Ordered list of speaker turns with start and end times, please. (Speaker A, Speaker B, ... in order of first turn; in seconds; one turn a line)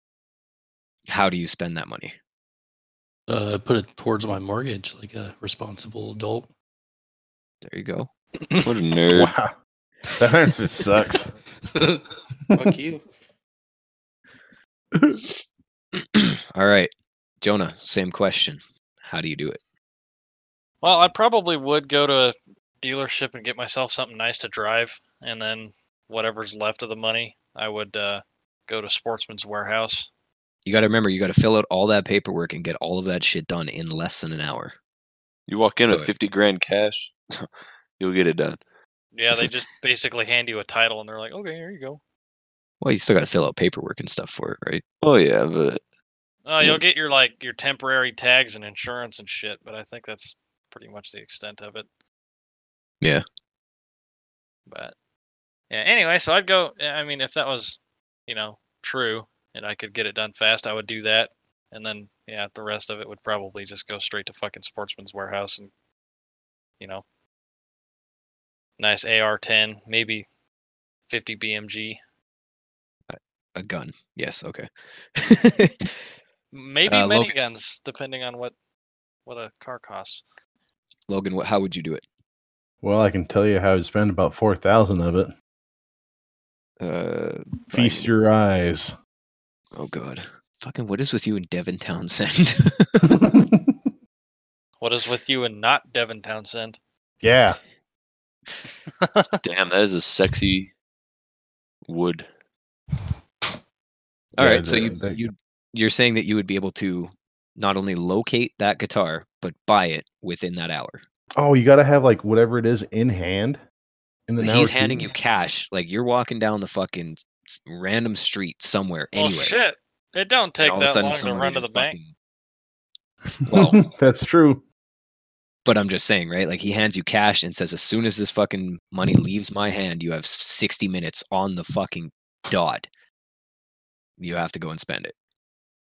Speaker A: 1.1-2.1
Speaker B: 3.3-6.5
Speaker A: 7.6-8.1
Speaker C: 8.6-9.3
Speaker D: 9.1-9.5
Speaker D: 10.1-11.3
Speaker B: 11.7-13.0
Speaker D: 14.9-15.2
Speaker A: 15.9-19.6
Speaker E: 20.8-30.1
Speaker A: 30.6-34.7
Speaker C: 35.5-38.6
Speaker A: 35.9-36.1
Speaker E: 39.1-42.0
Speaker A: 42.8-44.8
Speaker C: 45.0-45.8
Speaker E: 46.5-51.9
Speaker E: 54.7-54.9
Speaker E: 55.7-65.7
Speaker E: 68.8-70.2
Speaker E: 71.1-72.0
Speaker A: 73.1-76.1
Speaker E: 76.5-78.5
Speaker A: 76.8-77.3
Speaker E: 79.2-80.2
Speaker A: 81.1-82.0
Speaker D: 82.8-85.3
Speaker A: 86.8-88.1
Speaker D: 87.7-88.9
Speaker A: 89.7-93.2
Speaker D: 93.1-93.8
Speaker E: 94.8-96.8
Speaker D: 97.2-97.6
Speaker E: 99.0-99.3
Speaker C: 99.4-100.7
Speaker C: 101.8-102.3
Speaker D: 104.4-105.2
Speaker A: 104.4-111.0
Speaker D: 111.3-113.6
Speaker D: 114.3-115.1
Speaker A: 114.4-119.5
Speaker E: 119.2-121.9
Speaker A: 120.6-122.1
Speaker D: 123.5-124.6
Speaker A: 123.5-123.8
Speaker A: 125.6-132.9
Speaker A: 134.2-135.1